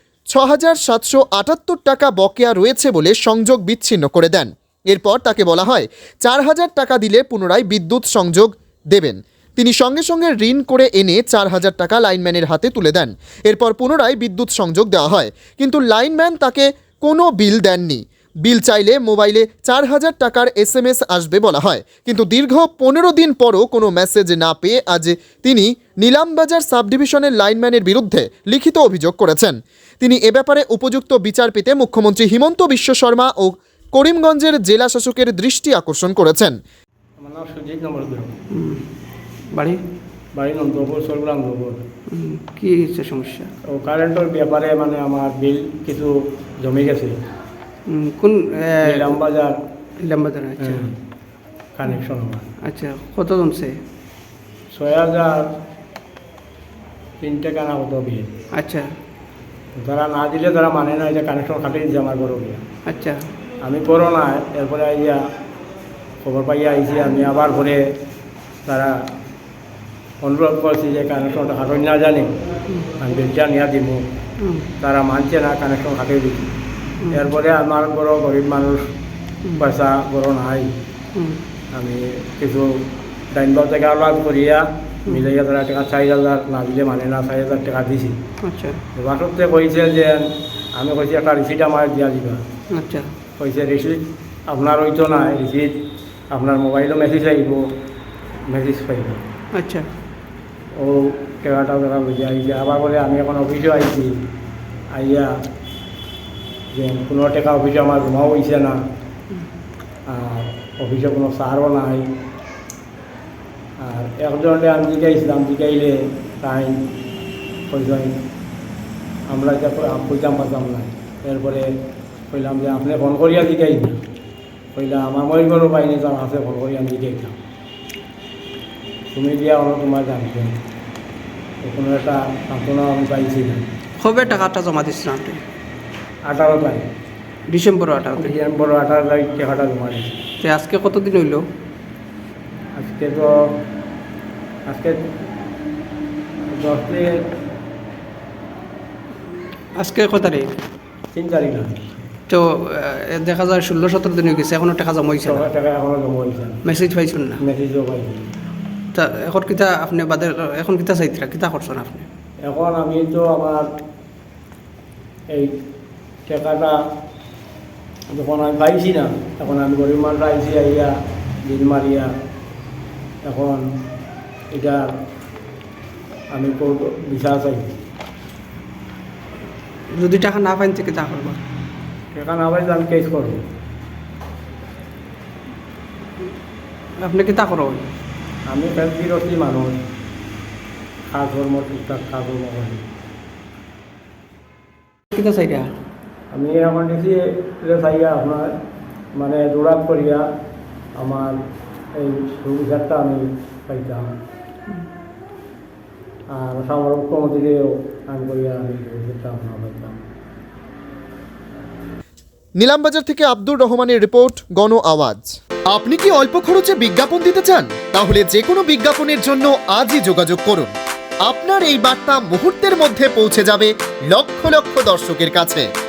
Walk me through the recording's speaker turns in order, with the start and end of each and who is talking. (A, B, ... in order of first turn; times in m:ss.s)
0:00.3-0:36.5 A
0:37.2-0:38.3 B
0:38.5-0:38.8 C
0:39.5-0:39.8 C
0:40.4-0:41.8 B
0:42.1-0:43.5 C
0:43.7-0:47.2 B
0:47.9-0:49.1 C
0:48.8-0:49.5 B
0:50.0-0:50.9 C
0:50.6-0:51.0 B
0:51.8-0:52.5 B
0:52.6-0:53.8 C
0:54.7-0:55.5 B
0:57.2-0:58.3 B
0:58.5-0:58.9 C
0:59.8-1:02.6 B
1:02.9-1:03.2 C
1:03.6-1:05.2 B
1:06.2-1:07.8 B
1:08.6-1:09.0 B
1:10.2-1:12.3 B
1:13.0-1:14.0 B
1:14.4-1:14.7 C
1:14.8-1:16.5 B
1:17.1-1:18.9 B
1:19.6-1:20.7 B
1:21.1-1:21.4 C
1:21.7-1:22.7 B
1:23.3-1:28.2 B
1:28.4-1:28.8 C
1:29.0-1:32.4 B
1:32.7-1:33.1 C
1:33.4-1:35.7 B
1:36.3-1:37.7 B
1:38.5-1:39.2 B
1:39.5-1:39.9 C
1:40.7-1:44.1 B
1:44.9-1:45.3 B
1:46.7-1:48.8 B
1:50.1-1:52.1 B
1:53.8-1:56.8 B
1:57.7-1:58.2 B
1:59.3-2:01.7 B
2:02.3-2:04.0 B
2:04.7-2:07.3 B
2:09.1-2:10.6 B
2:11.6-2:13.6 B
2:14.0-2:15.4 C
2:16.2-2:16.9 B
2:17.5-2:18.4 C
2:18.2-2:20.2 B
2:20.4-2:21.4 C
2:22.8-2:23.3 B
2:24.7-2:25.0 B
2:26.5-2:27.2 B
2:29.8-2:30.6 C
2:31.1-2:32.0 B
2:32.3-2:35.5 C
2:35.2-2:36.6 B
2:36.6-2:37.4 C
2:37.4-2:38.2 B
2:38.9-2:42.1 C
2:42.4-2:43.7 B
2:46.3-2:46.8 B
2:48.1-2:50.9 B
2:51.4-2:52.1 B
2:53.2-2:53.6 B
2:54.5-2:54.9 B
2:56.3-2:57.7 B
2:59.9-3:01.4 C
3:02.1-3:03.4 B
3:07.0-3:07.9 C
3:08.5-3:09.8 B
3:11.1-3:12.8 B
3:15.1-3:15.7 C
3:16.3-3:18.5 B
3:19.2-3:20.2 B
3:21.0-3:21.4 B
3:21.9-3:24.1 B
3:26.3-3:30.0 B
3:32.6-3:40.7 A
3:41.2-3:45.7 A